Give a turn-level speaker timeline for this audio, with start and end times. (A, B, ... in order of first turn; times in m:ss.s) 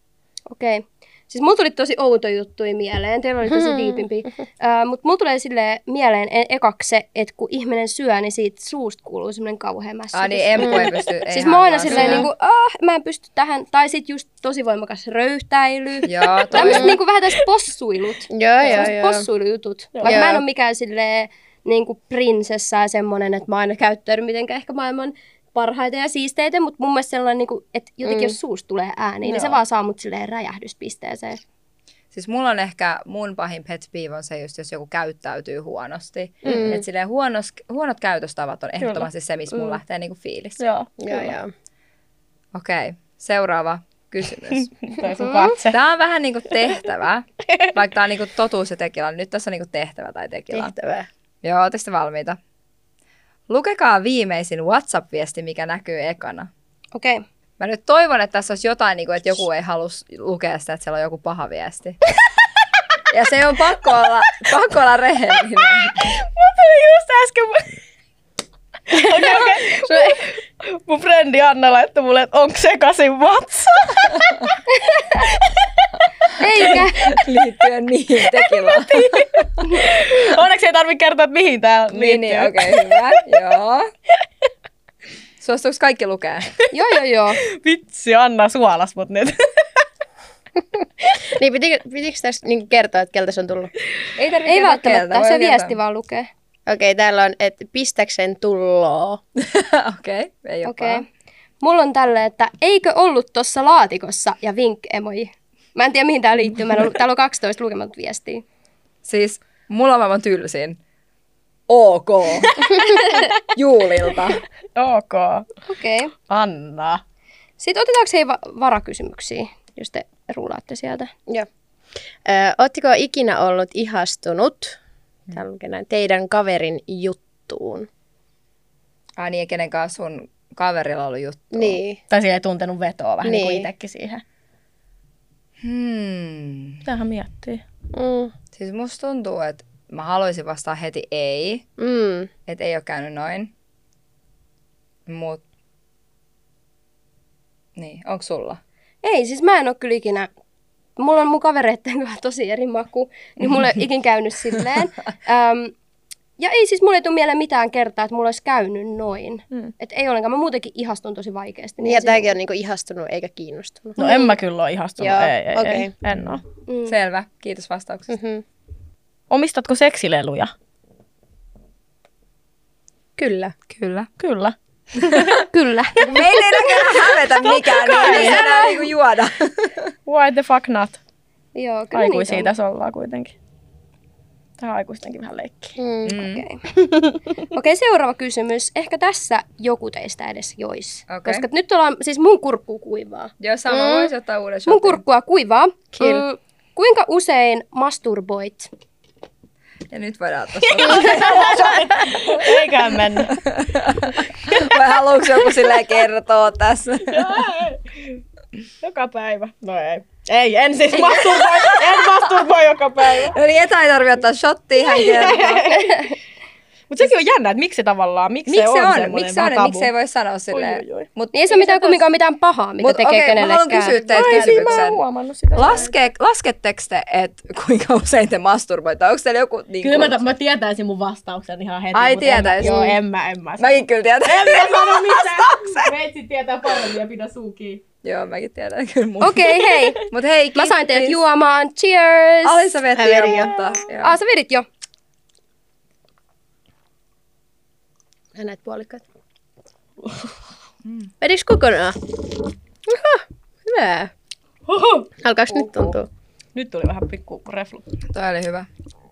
0:00.5-0:31.4 A
0:03.5-0:04.0 B
0:10.1-0:12.3 C
0:11.9-0:12.2 B
0:16.0-0:17.0 C
0:16.6-0:17.0 B
0:18.3-0:19.2 B
0:19.9-0:20.2 D
0:20.0-0:20.4 B
0:28.0-0:28.3 B
0:29.2-0:29.6 D
0:32.1-0:40.6 C
0:36.4-0:36.8 B
0:36.5-0:36.8 D
0:38.8-0:39.1 D
0:40.6-0:41.2 D
0:41.0-0:41.5 B
0:42.5-0:44.9 C
0:44.9-0:45.8 D
0:45.2-0:45.5 A
0:45.6-0:50.7 C
0:50.5-0:51.1 B
0:51.4-0:52.4 C
0:53.5-0:56.5 C
0:56.9-0:57.2 A
0:57.6-1:02.0 C
1:03.1-1:06.1 C
1:05.8-1:07.8 D
1:08.9-1:14.5 D
1:14.7-1:15.2 A
1:15.2-1:17.2 D
1:16.4-1:17.0 A
1:17.1-1:19.5 C
1:18.2-1:23.0 D
1:21.9-1:23.9 C
1:25.4-1:26.5 C
1:26.7-1:27.4 A
1:27.5-1:29.8 D
1:31.2-1:33.7 B
1:34.2-1:35.8 C
1:34.4-1:36.3 A
1:36.7-1:39.2 B
1:39.4-1:41.0 C
1:40.6-1:41.0 A
1:41.6-1:48.4 A
1:49.0-1:50.8 C
1:51.7-1:54.4 C
1:54.8-1:55.5 D
1:55.7-1:56.1 A
1:56.3-1:57.0 D
1:57.6-2:01.1 A
2:02.2-2:04.8 B
2:05.3-2:07.9 B
2:09.2-2:11.8 C
2:11.5-2:12.0 B
2:12.1-2:14.2 D
2:13.2-2:13.7 B
2:15.6-2:16.8 C
2:16.8-2:17.6 D
2:17.9-2:18.3 B
2:18.5-2:21.7 C
2:21.8-2:22.3 B
2:22.5-2:23.5 C
2:25.1-2:25.4 C
2:27.8-2:28.6 C
2:29.0-2:30.3 A
2:31.0-2:35.7 A
2:36.4-2:42.3 A
2:41.8-2:44.2 B
2:44.0-2:46.4 D
2:45.0-2:45.9 B
2:46.7-2:46.9 A
2:46.8-2:48.1 C
2:48.1-2:48.4 B
2:49.3-2:50.5 D
2:53.2-2:53.5 B
2:53.7-2:54.1 C
2:54.2-2:55.4 D
2:55.4-2:56.2 A
2:56.0-2:59.9 C
2:57.6-2:58.6 D
2:57.8-2:58.7 A
3:00.0-3:01.0 D
3:01.5-3:02.5 A
3:01.9-3:03.3 D
3:04.6-3:05.8 D
3:05.8-3:06.2 B
3:06.0-3:06.4 C
3:06.2-3:06.6 A
3:06.8-3:07.2 D
3:07.5-3:13.3 A
3:11.1-3:11.4 C
3:13.4-3:15.0 C
3:13.7-3:14.1 B
3:14.7-3:18.7 A
3:16.0-3:16.2 B
3:19.9-3:22.5 C
3:20.6-3:23.4 D
3:23.3-3:27.4 C
3:24.4-3:24.7 D
3:27.1-3:28.2 D
3:28.8-3:33.4 D
3:31.0-3:32.0 C
3:33.2-3:35.7 C
3:34.8-3:36.1 D
3:35.7-3:36.1 A
3:36.9-3:39.9 D
3:38.5-3:42.0 C
3:40.5-3:41.1 D
3:41.3-3:44.5 A
3:42.8-3:45.0 C
3:44.1-3:45.9 D
3:45.5-3:50.2 C
3:49.8-3:57.8 D
3:51.9-3:52.8 C
3:52.6-3:52.9 A
3:53.6-3:55.9 C
3:58.0-4:01.2 C
3:59.2-4:00.0 A
4:00.5-4:02.7 A
4:02.4-4:04.2 C
4:02.9-4:03.5 B
4:03.4-4:03.7 D
4:04.0-4:04.6 A
4:08.3-4:09.0 B
4:10.0-4:10.3 D
4:10.8-4:11.1 C
4:11.2-4:12.3 B
4:12.8-4:14.1 B
4:14.7-4:15.9 D
4:15.2-4:16.1 B
4:16.5-4:17.8 D
4:18.1-4:18.7 C